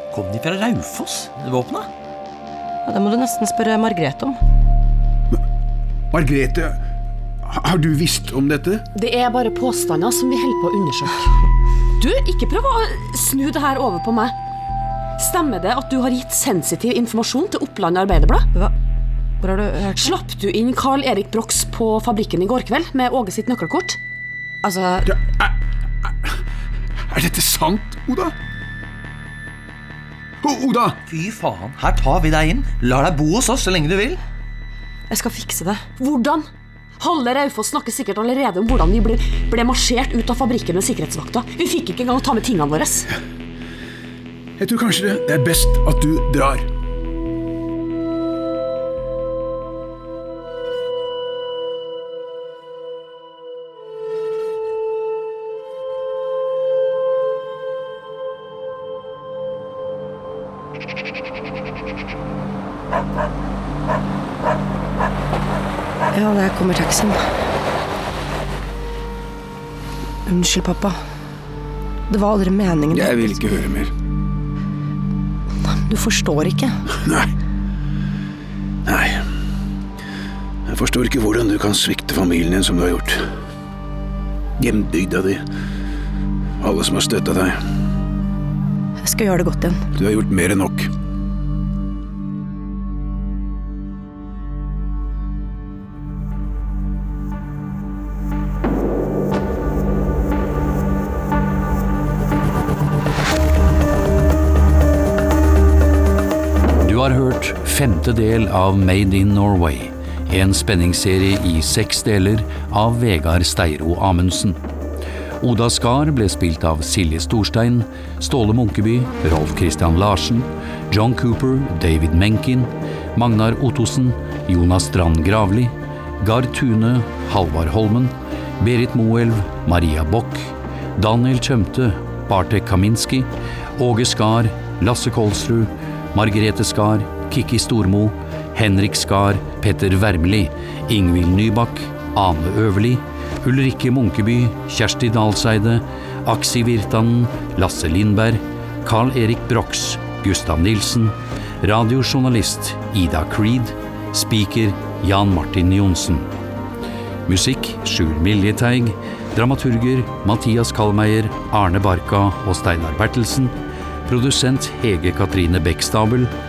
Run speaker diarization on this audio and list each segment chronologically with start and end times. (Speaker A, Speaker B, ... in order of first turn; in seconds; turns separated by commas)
Speaker A: 0.1-1.9, Speaker B: 2.9-4.4, Speaker C: 6.1-6.8, Speaker C: 7.4-8.8, Speaker D: 8.9-11.3, Speaker D: 12.0-14.3, Speaker D: 15.2-18.4, Speaker B: 19.4-20.1, Speaker D: 20.0-24.0, Speaker B: 24.6-25.1, Speaker C: 25.1-25.5, Speaker C: 27.1-28.3, Speaker C: 30.4-31.0, Speaker A: 31.1-34.2, Speaker B: 35.1-35.8, Speaker D: 36.0-36.5, Speaker D: 37.0-43.1, Speaker C: 44.6-46.6, Speaker B: 66.1-67.2, Speaker B: 70.2-71.0, Speaker B: 72.1-73.4, Speaker C: 72.9-73.9, Speaker B: 75.7-76.7, Speaker C: 77.0-77.3, Speaker C: 78.8-79.2, Speaker C: 80.7-83.2, Speaker C: 84.6-85.4, Speaker C: 86.6-87.6, Speaker B: 89.0-89.8, Speaker C: 89.9-90.9, Speaker E: 106.8-114.6, Speaker E: 115.4-156.3, Speaker E: 157.2-163.5, Speaker E: 164.1-166.3